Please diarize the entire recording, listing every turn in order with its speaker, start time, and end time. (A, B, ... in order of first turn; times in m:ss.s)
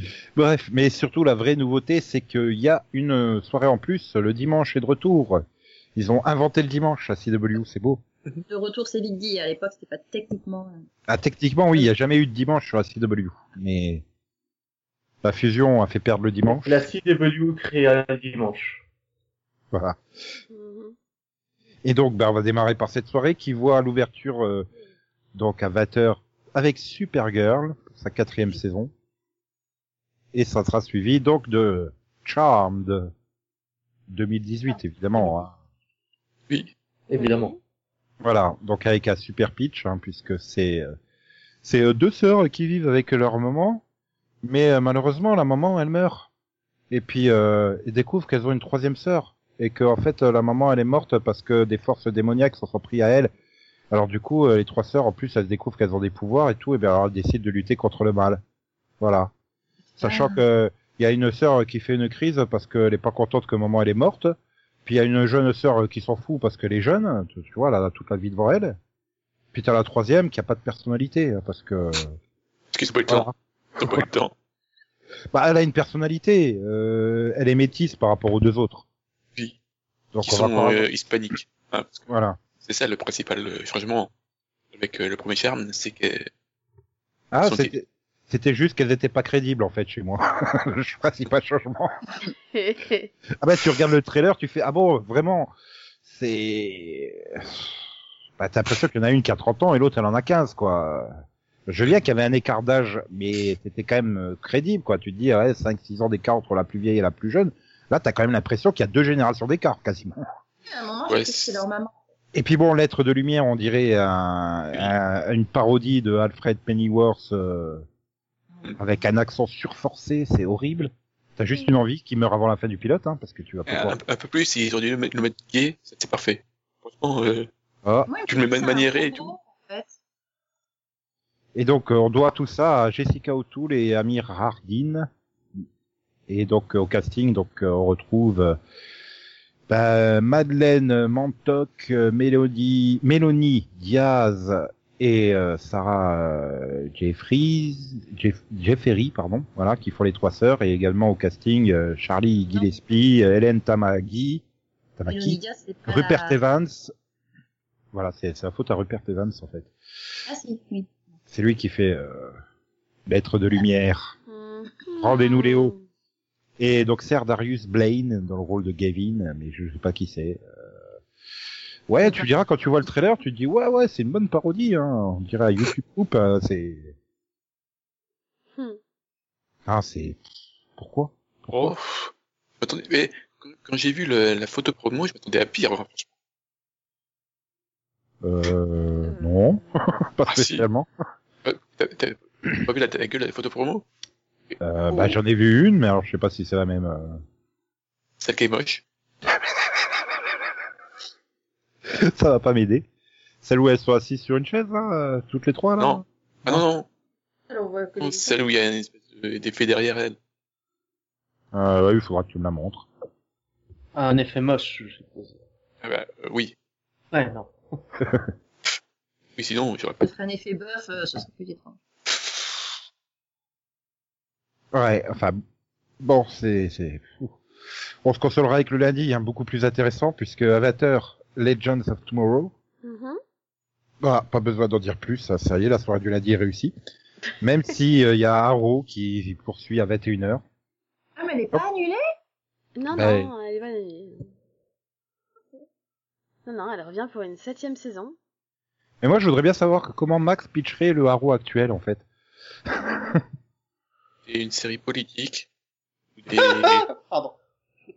0:00.4-0:05.4 A
0:06.0-0:08.0 A
0:08.5-0:10.9 B
0:11.1-0:14.0 A
0:15.2-0:16.8 A
0:16.6-0:18.8 C
0:19.7-0:20.0 A
0:20.5-0:21.0 D
0:21.8-0:24.7 A
0:25.4-0:28.9 A
0:30.3-0:33.1 A
0:34.1-0:35.5 A
0:37.1-0:37.6 C
0:37.2-0:37.5 D
0:38.2-0:41.0 A
0:41.6-0:43.8 A
0:44.4-0:46.3 A
0:46.9-0:53.3 A
0:53.9-0:58.4 A
0:59.0-0:59.3 A
1:00.0-1:00.4 B
1:00.0-1:04.4 A
1:04.9-1:08.8 A
1:09.5-1:12.2 A
1:12.7-1:14.3 E
1:13.1-1:13.3 A
1:15.3-1:18.9 A
1:20.1-1:20.9 A
1:20.2-1:22.0 E
1:22.1-1:22.4 A
1:22.6-1:24.1 E
1:24.7-1:26.3 E
1:27.3-1:31.9 A
1:27.4-1:27.7 E
1:32.5-1:33.1 D
1:33.4-1:35.5 A
1:36.1-1:37.7 A
1:38.4-1:41.1 A
1:41.7-1:50.2 A
1:50.7-1:52.0 B
1:51.1-1:51.6 E
1:52.3-1:57.9 A
1:58.8-2:04.0 A
2:03.7-2:07.5 E
2:07.8-2:08.1 A
2:08.1-2:10.0 B
2:08.3-2:09.3 E
2:11.6-2:15.1 A
2:16.3-2:18.6 A
2:19.7-2:34.4 A
2:35.0-2:36.9 A
2:35.1-2:36.4 B
2:37.9-2:39.7 A
2:40.3-2:40.9 B
2:41.3-2:42.4 A
2:43.1-2:44.2 A
2:44.3-2:45.8 D
2:45.0-2:45.8 A
2:46.6-2:50.8 A
2:51.9-2:57.0 A
2:59.7-3:00.2 A
3:00.8-3:01.8 A
3:01.5-3:06.1 E
3:08.2-3:10.9 A
3:10.3-3:10.7 E
3:11.4-3:13.8 E
3:14.6-3:17.2 A
3:18.2-3:18.8 E
3:21.9-3:22.9 A
3:23.4-3:26.6 A
3:25.8-3:26.9 E
3:27.5-3:28.4 B
3:28.0-3:30.2 E
3:31.5-3:32.9 A
3:34.0-3:35.4 C
3:35.8-3:36.5 E
3:37.1-3:37.8 C
3:39.4-3:40.0 E
3:40.0-3:41.8 B
3:44.7-3:45.4 A
3:46.0-3:47.4 A
3:48.0-3:52.5 A
3:52.8-3:53.2 D
3:54.0-3:56.7 A
3:57.4-4:00.4 A
4:01.2-4:02.0 B
4:02.8-4:04.3 D
4:02.9-4:03.3 A
4:06.5-4:08.2 D
4:09.0-4:12.0 A
4:12.7-4:13.2 A
4:14.3-4:15.5 E
4:16.2-4:16.9 E
4:16.3-4:17.4 C